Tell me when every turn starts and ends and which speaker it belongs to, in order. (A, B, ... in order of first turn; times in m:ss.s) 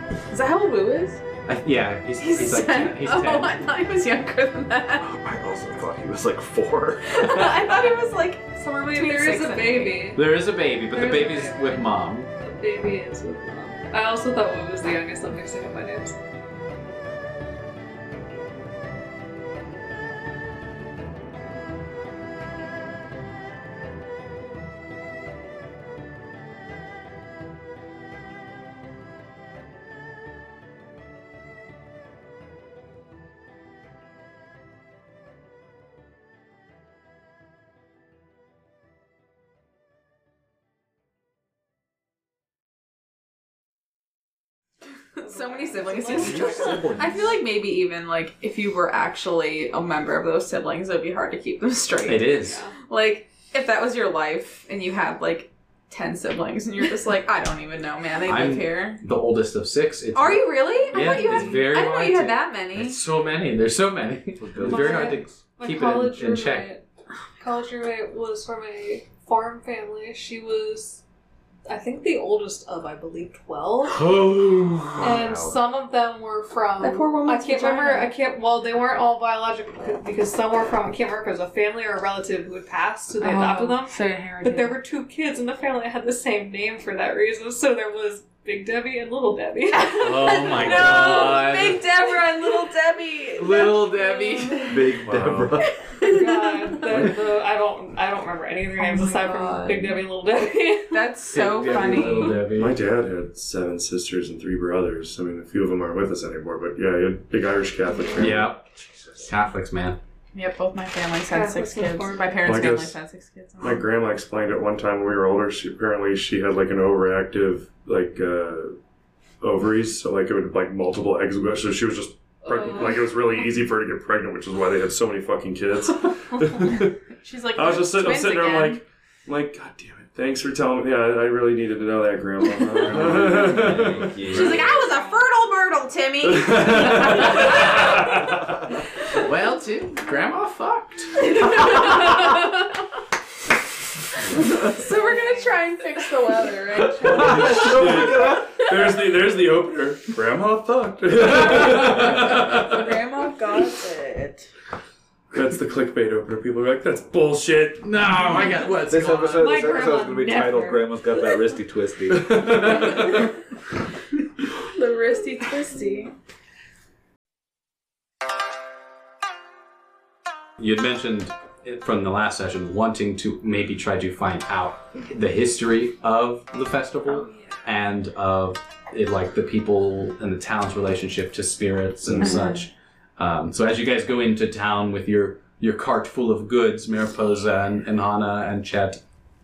0:00.3-0:01.2 A
0:01.5-0:03.5 B
0:02.2-0:05.1 A
0:05.0-0:07.5 C
0:07.1-0:10.1 A
0:08.8-0:16.2 D
0:10.1-0:12.3 B
0:45.2-0:59.0 A
0:45.2-0:47.1 D
0:46.1-0:47.2 C
0:52.0-0:52.6 B
0:52.3-0:52.8 D
0:58.2-1:06.7 B
1:00.1-1:03.0 A
1:00.8-1:01.5 D
1:04.4-1:05.1 C
1:04.6-1:06.8 D
1:07.4-1:11.0 D
1:11.7-1:14.2 D
1:13.9-1:15.1 B
1:15.0-1:15.6 C
1:15.0-1:31.4 D
1:16.8-1:18.1 A
1:23.2-1:24.8 A
1:29.7-1:34.9 A
1:30.0-1:31.8 B
1:32.4-1:32.7 D
1:33.4-1:35.5 B
1:34.6-1:35.8 C
1:35.0-1:35.5 E
1:35.9-1:37.0 A
1:36.0-1:41.1 D
1:38.8-1:40.0 A
1:40.9-1:42.4 A
1:41.3-1:42.8 B
1:41.9-1:48.6 E
1:48.0-1:48.3 D
1:48.2-1:48.6 B
1:49.2-1:50.0 B
1:50.3-1:53.9 A
1:51.3-1:52.5 D
1:52.4-1:53.0 E
1:53.6-1:58.8 E
1:59.4-2:07.0 E
2:02.5-2:03.0 D
2:07.2-2:08.8 A
2:07.5-2:14.3 E
2:12.9-2:14.6 C
2:14.2-2:18.0 A
2:14.4-2:15.2 D
2:16.3-2:18.4 E
2:17.0-2:17.7 B
2:19.1-2:21.2 B
2:21.5-2:21.9 A
2:24.4-2:27.9 A
2:24.8-2:25.6 D
2:27.0-2:32.8 E
2:27.0-2:28.7 C
2:31.5-2:32.4 B
2:32.3-2:34.5 A
2:35.3-2:37.9 E
2:37.8-2:39.6 B
2:38.9-2:42.8 C
2:39.3-2:41.1 D
2:42.1-2:43.3 E
2:44.6-2:46.1 A
2:50.6-3:09.0 B
2:57.1-2:57.6 D
3:02.2-3:02.6 A